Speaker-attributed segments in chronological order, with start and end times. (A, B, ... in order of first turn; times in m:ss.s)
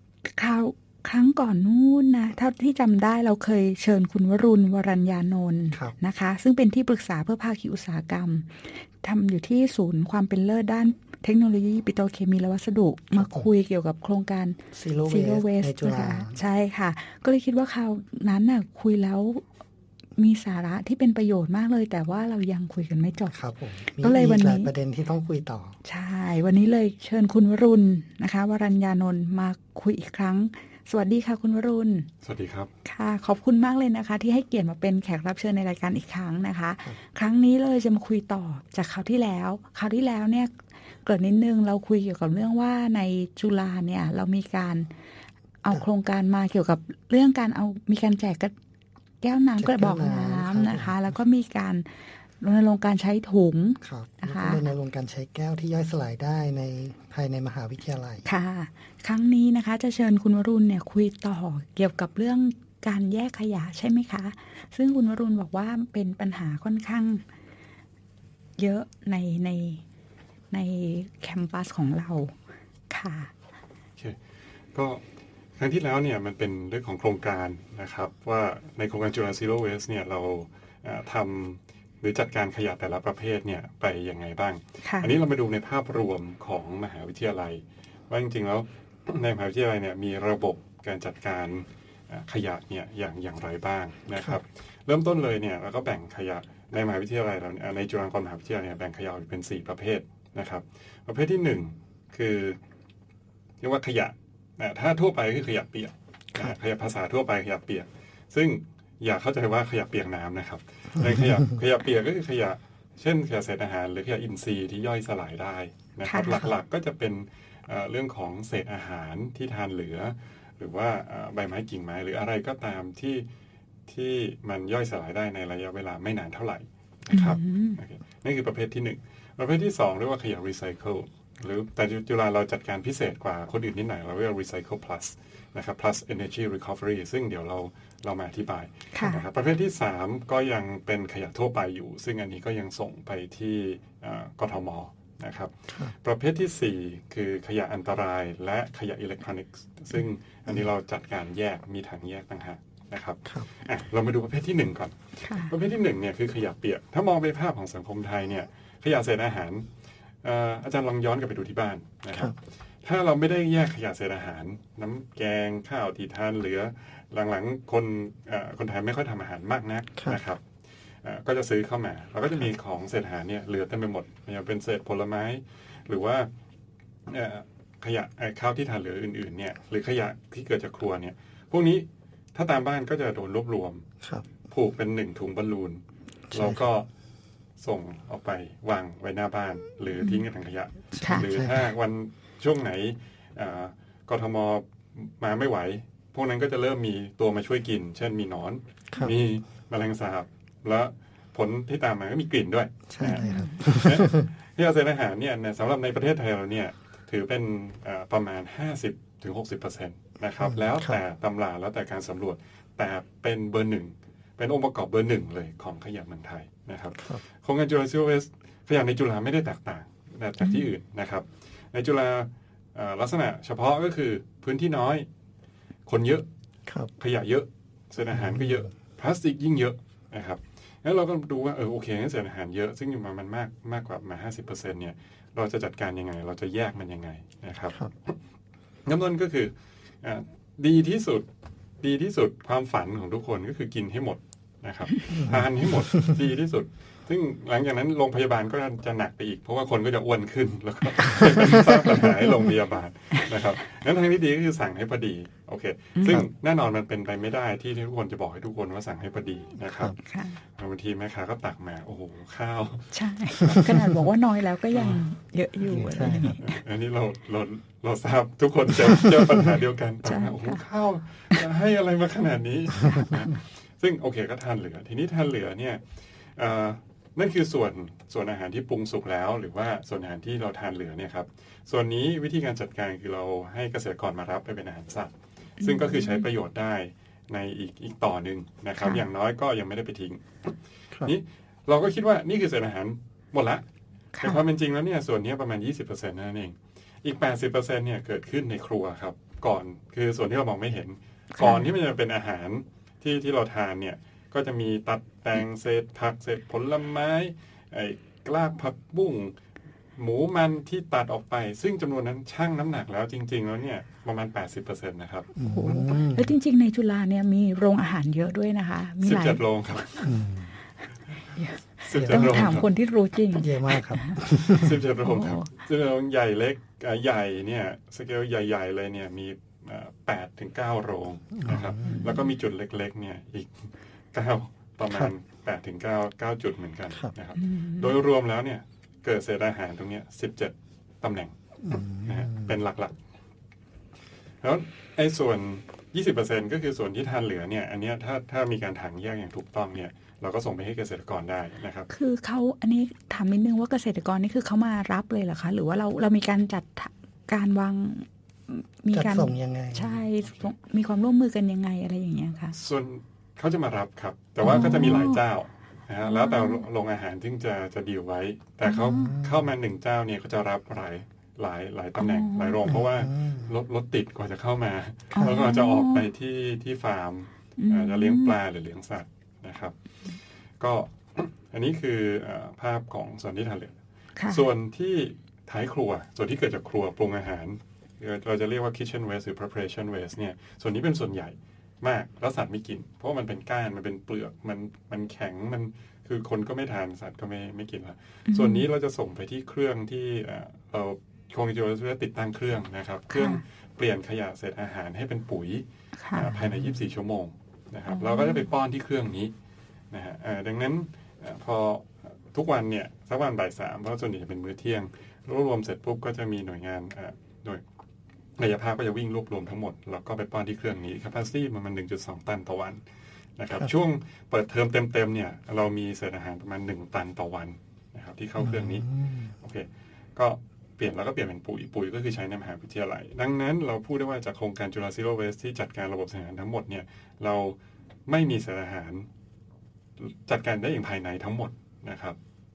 0:00.2-0:19.5 A
0:13.2-0:13.5 B
0:14.7-0:16.4 B
0:20.2-0:23.4 A
0:23.3-0:25.8 B
0:24.0-0:24.7 A
0:25.8-0:32.1 A
0:32.2-0:32.7 C
0:32.8-0:44.9 A
0:45.6-0:48.5 A
0:49.2-0:54.6 A
0:49.6-0:51.1 B
0:53.8-0:58.2 B
0:58.2-1:07.2 A
1:08.6-1:09.8 A
1:10.5-1:12.4 A
1:12.9-1:13.3 A
1:14.7-1:15.0 C
1:15.6-1:42.6 C
1:24.8-1:25.2 A
1:43.6-2:03.3 C
1:51.0-1:51.5 B
1:56.1-1:56.4 A
2:03.9-2:39.7 C
2:07.1-2:07.8 A
2:18.9-2:19.2 A
2:35.2-2:35.5 A
2:40.2-2:50.4 C
2:51.0-2:56.3 C
2:57.1-3:03.9 C
3:04.0-3:04.3 B
3:04.5-3:06.9 C
3:06.3-3:06.6 B
3:07.6-3:45.1 C
3:10.9-3:11.7 B
3:11.0-3:11.3 A
3:22.9-3:24.3 B
3:23.0-3:23.6 A
3:30.4-3:31.0 B
3:37.0-3:37.2 B
3:45.9-3:46.3 C
3:47.0-3:58.2 C
3:48.1-3:48.6 B
3:58.8-4:01.3 C
4:01.8-4:23.8 C
4:05.1-4:06.2 B
4:16.0-4:16.2 A
4:19.7-4:20.0 B
4:20.0-4:20.4 A
4:22.9-4:26.6 A
4:24.7-4:25.0 C
4:25.7-4:26.4 B
4:26.4-4:53.6 C
4:30.1-4:30.6 A
4:45.6-4:46.3 A
4:54.2-4:54.4 A
4:54.2-5:09.3 C
5:01.4-5:01.7 A
5:10.0-5:15.3 C
5:15.4-5:16.3 B
5:15.4-5:20.1 A
5:19.0-5:20.1 C
5:20.0-5:20.5 B
5:21.3-5:25.5 A
5:21.8-5:22.7 C
5:22.0-5:22.6 B
5:23.4-5:24.8 B
5:24.4-5:43.0 C
5:31.3-5:32.0 B
5:31.8-5:32.3 A
5:37.4-5:37.9 A
5:41.6-5:42.5 B
5:44.4-5:51.9 C
5:51.9-6:02.6 A
5:58.9-6:00.0 B
6:02.6-6:19.8 C
6:04.4-6:05.2 A
6:06.0-6:06.6 A
6:08.6-6:09.2 A
6:09.0-6:09.5 B
6:12.0-6:12.6 A
6:12.6-6:13.5 B
6:15.1-6:16.1 A
6:17.6-6:18.3 A
6:20.6-6:23.7 C
6:24.2-6:24.4 A
6:24.3-6:49.3 C
6:38.3-6:38.7 A
6:43.1-6:43.4 A
6:46.0-6:46.4 A
6:47.9-6:48.5 A
6:49.9-6:57.6 C
6:58.4-7:02.8 C
7:03.4-7:19.1 C
7:08.4-7:09.3 B
7:20.0-7:22.2 C